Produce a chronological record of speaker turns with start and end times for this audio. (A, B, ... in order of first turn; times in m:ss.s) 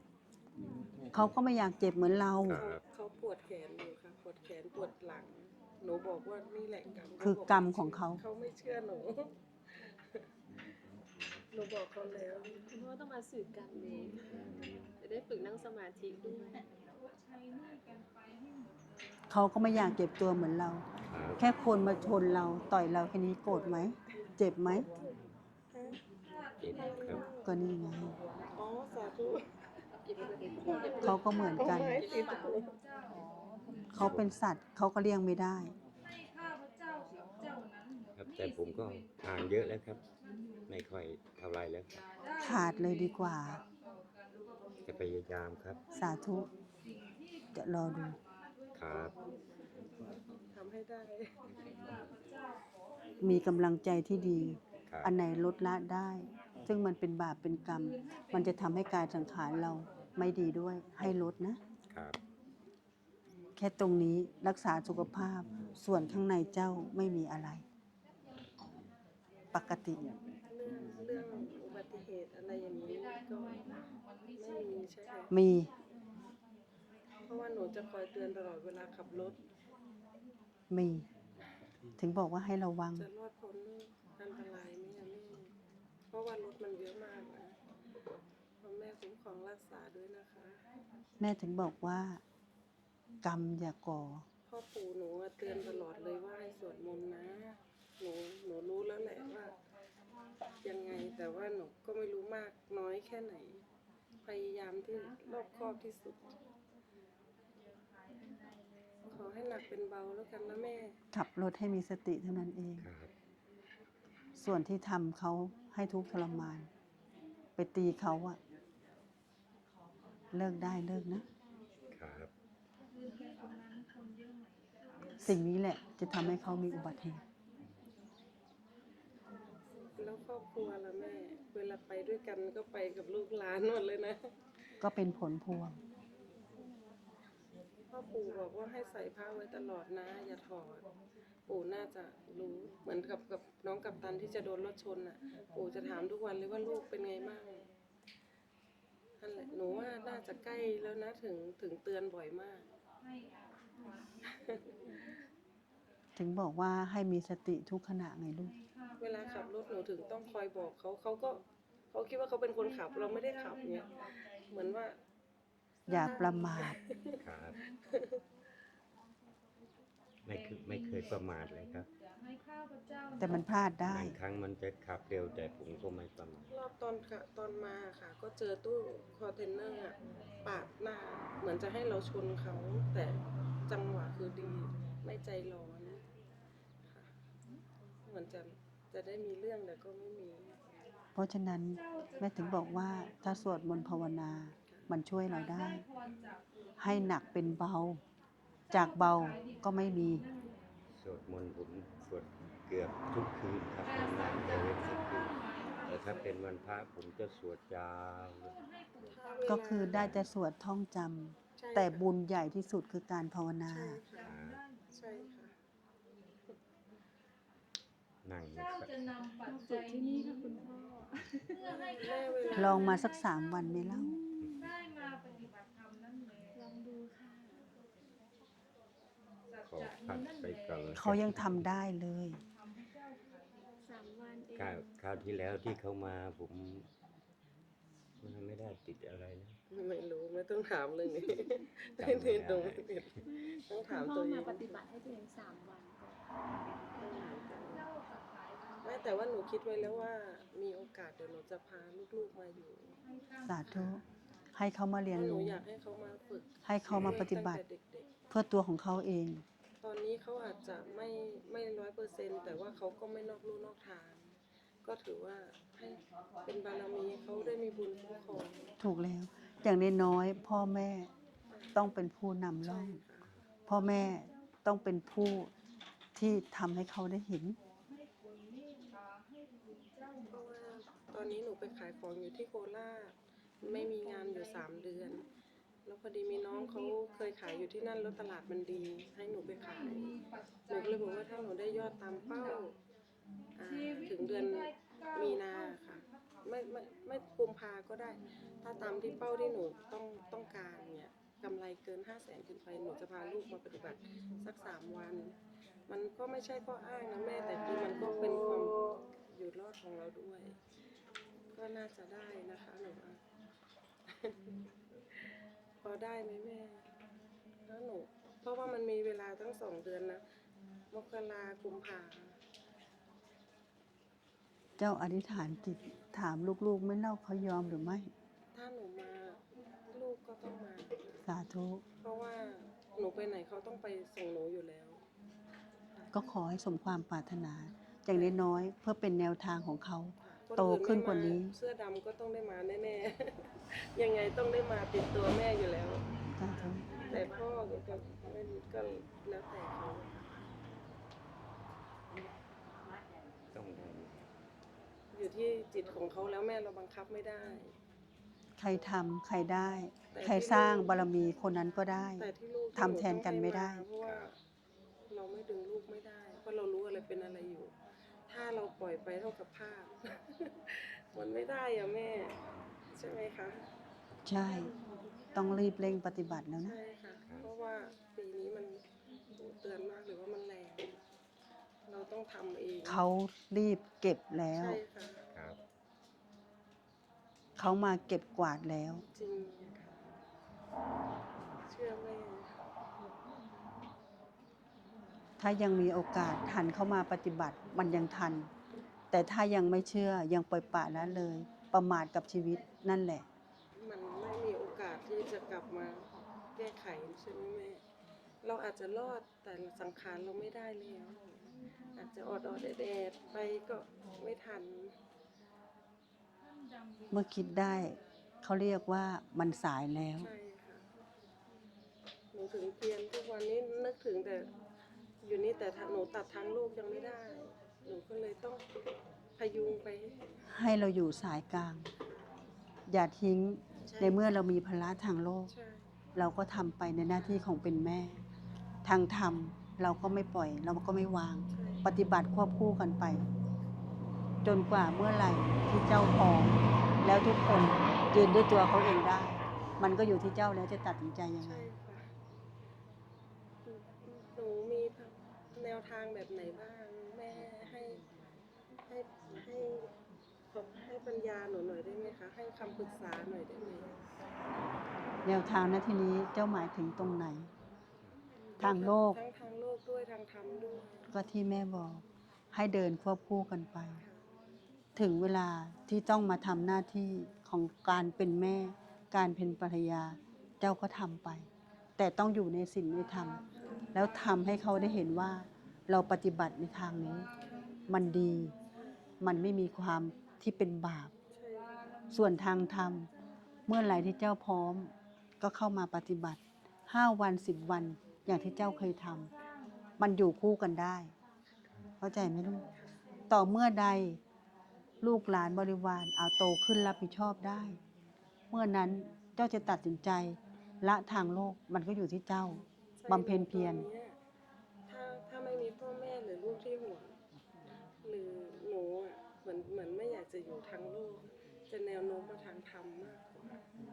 0:01.1-0:02.6 A
0:02.4-0:02.8 B
0:02.5-0:09.8 C
0:07.2-0:08.2 A
0:11.5-0:12.6 C
0:12.7-0:14.2 D
0:15.0-0:16.7 D
0:19.3-0:20.8 A
0:21.1-0:21.5 B
0:21.4-0:24.9 A
0:25.7-0:26.0 C
0:26.6-0:27.2 B
0:26.8-0:27.4 C
0:27.4-0:28.2 A
0:28.6-0:29.4 C
0:30.1-0:31.2 D
0:30.7-0:32.8 C
0:31.0-0:32.0 A
0:33.9-0:35.8 A
0:34.0-0:34.3 B
0:38.2-0:40.0 B
0:40.7-0:42.0 B
0:42.4-0:43.6 A
0:44.8-0:45.8 B
0:46.0-0:46.5 A
0:47.6-0:48.2 A
0:48.7-0:49.2 B
0:50.5-0:51.4 C
0:53.2-1:01.6 A
0:54.9-0:55.2 B
1:01.9-1:02.2 B
1:03.6-1:07.6 A
1:09.5-1:10.0 A
1:10.5-1:13.8 C
1:14.4-1:15.3 C
1:15.3-1:15.7 A
1:17.3-1:19.4 C
1:20.7-1:21.1 A
1:22.0-1:23.1 A
1:23.0-1:25.5 C
1:26.1-1:27.6 C
1:28.6-1:30.6 C
1:31.2-1:32.2 A
1:33.2-1:34.2 A
1:34.5-1:39.6 C
1:40.6-1:43.6 C
1:44.2-1:46.3 C
1:49.1-1:51.0 C
1:51.1-1:52.9 A
1:52.8-1:53.1 B
1:54.4-1:56.7 A
1:57.6-1:58.4 A
2:00.3-2:01.2 A
2:01.9-2:02.3 B
2:05.2-2:07.2 A
2:10.0-2:14.2 C
2:14.8-2:15.8 A
2:17.9-2:20.8 C
2:21.5-2:27.7 C
2:29.2-2:32.7 C
2:34.3-2:34.6 C
2:36.2-2:38.6 A
2:39.0-2:43.9 C
2:44.5-2:45.0 C
2:45.9-2:46.8 A
2:45.9-2:47.2 C
2:47.2-2:47.6 B
2:47.9-2:48.2 C
2:50.2-2:51.9 B
2:53.2-2:54.2 A
2:53.8-2:56.5 B
2:56.5-3:06.0 C
3:08.1-3:10.6 C
3:11.2-3:15.8 A
3:16.8-3:18.0 A
3:18.7-3:20.2 A
3:21.0-3:28.6 B
3:29.1-3:30.1 C
3:29.4-3:34.0 A
3:30.0-3:30.3 B
3:31.6-3:32.0 C
3:33.7-3:34.3 C
3:34.2-3:34.6 B
3:34.9-3:35.5 C
3:38.2-3:39.0 B
3:39.5-3:41.7 D
3:41.7-3:43.0 C
3:42.6-3:44.1 A
3:43.9-3:44.6 D
3:46.6-3:47.7 D
3:49.6-3:51.6 B
3:51.0-3:52.4 A
3:53.9-3:54.8 D
3:54.6-3:56.9 B
3:58.2-3:59.6 B
3:59.7-4:04.8 C
4:02.0-4:02.9 B
4:03.5-4:06.2 D
4:07.0-4:07.9 C
4:08.8-4:13.0 C
4:13.5-4:14.0 A
4:14.6-4:15.6 A
4:15.1-4:18.1 C
4:16.6-4:17.6 A
4:18.3-4:19.4 A
4:19.8-4:24.3 C
4:24.8-4:28.6 C
4:28.8-4:31.1 A
4:31.5-4:31.8 C
4:31.7-4:33.0 A
4:32.6-4:33.3 C
4:33.7-4:35.5 A
4:36.2-4:37.6 A
4:40.3-4:45.2 C
4:45.8-4:50.1 C
4:50.7-4:52.7 C
4:53.6-5:05.3 C
5:05.9-5:08.8 C
5:09.3-5:10.6 C
5:11.6-5:13.2 C
5:15.8-5:16.8 C
5:17.7-5:20.2 C
5:20.9-5:22.4 C
5:24.8-5:28.1 A
5:28.5-5:29.4 C
5:29.9-5:31.2 C
5:31.2-5:31.8 A
5:32.0-5:35.0 C
5:36.1-5:41.6 A
5:38.1-5:38.4 C
5:40.2-5:46.0 C
5:46.4-5:47.0 A
5:47.0-5:50.3 C
5:47.6-5:48.3 B
5:53.5-5:54.2 B
5:55.1-5:57.7 C
5:58.6-6:03.9 A
6:00.1-6:01.0 C
6:02.2-6:04.4 C
6:04.0-6:04.3 B
6:05.1-6:07.7 C
6:08.3-6:12.3 C
6:12.9-6:13.6 C
6:14.2-6:14.7 A
6:15.4-6:16.8 A
6:16.6-6:18.8 C
6:19.4-6:21.0 C
6:21.9-6:23.0 C
6:22.8-6:24.8 A
6:24.5-6:25.2 C
6:27.6-6:29.0 A
6:29.1-6:30.1 C
6:31.7-6:32.5 C
6:35.4-6:38.5 A
6:39.1-6:43.2 A
6:43.8-6:46.0 C
6:46.6-6:47.8 C
6:48.4-6:51.2 C
6:52.0-6:54.9 C
6:57.1-7:00.3 A
7:00.2-7:00.8 C
7:02.3-7:04.5 C
7:05.2-7:08.6 C
7:09.4-7:10.2 C
7:10.5-7:11.9 A
7:12.9-7:15.5 A
7:13.9-7:14.2 C
7:15.5-7:15.8 C
7:16.2-7:18.2 A
7:17.2-7:17.5 C
7:18.8-7:23.2 A
7:21.5-7:21.9 C
7:24.4-7:31.7 A
7:31.4-7:32.0 C
7:33.7-7:38.0 C
7:38.9-7:39.9 C
7:40.5-7:43.9 C
7:45.2-7:47.5 A
7:48.6-7:51.1 C
7:48.6-7:49.2 A
7:51.1-7:54.0 A
7:54.0-7:54.3 C
7:55.0-8:01.5 A
8:02.0-8:03.4 A
8:03.9-8:07.3 A
8:07.9-8:08.5 A
8:08.7-8:09.0 C
8:09.2-8:11.1 A
8:11.3-8:11.7 C
8:12.1-8:13.1 A
8:13.7-8:19.3 A
8:20.0-8:21.1 A
8:22.0-8:22.7 A
8:22.7-8:23.0 C
8:23.3-8:24.2 A
8:25.0-8:27.8 A
8:28.5-8:33.9 A
8:33.0-8:34.2 C
8:34.9-8:37.1 C
8:38.0-8:43.6 C